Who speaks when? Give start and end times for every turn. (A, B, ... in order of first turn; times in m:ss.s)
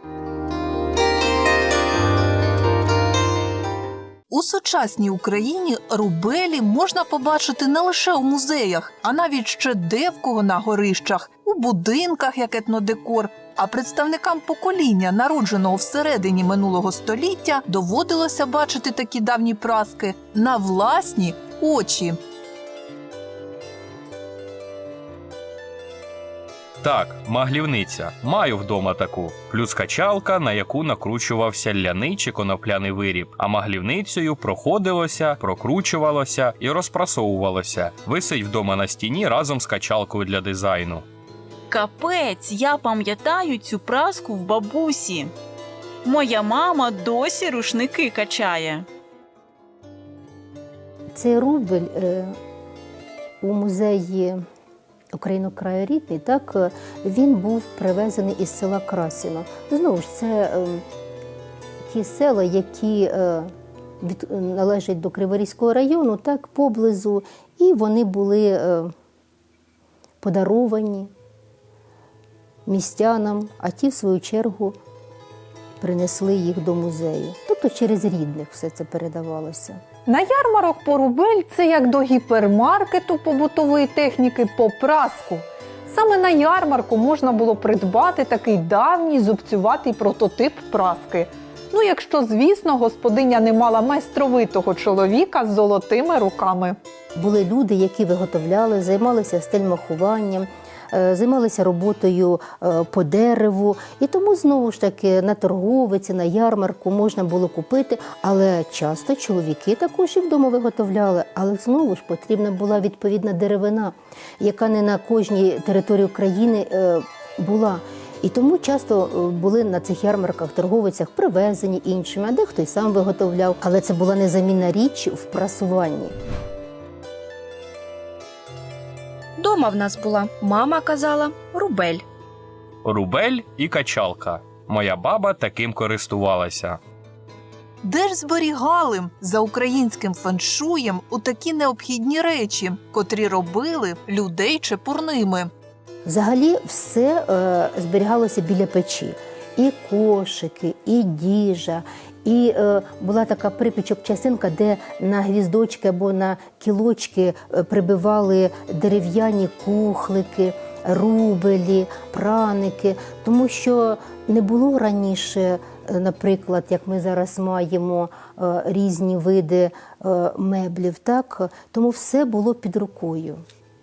0:04.3-0:22.2 A
0:26.8-0:41.1 B
0:41.7-0:45.3 C
0:46.0-0:48.9 C
0:51.1-0:52.3 D
0:53.4-0:54.4 D
0:55.1-1:00.8 D
1:01.8-1:08.9 D
1:10.2-1:11.1 D
1:12.7-1:14.8 D
1:15.8-1:19.8 D
1:20.1-1:36.8 E
1:37.2-2:06.1 D
2:09.4-2:12.0 F
2:12.8-2:16.8 B
2:17.8-2:25.5 A
2:26.1-2:53.4 D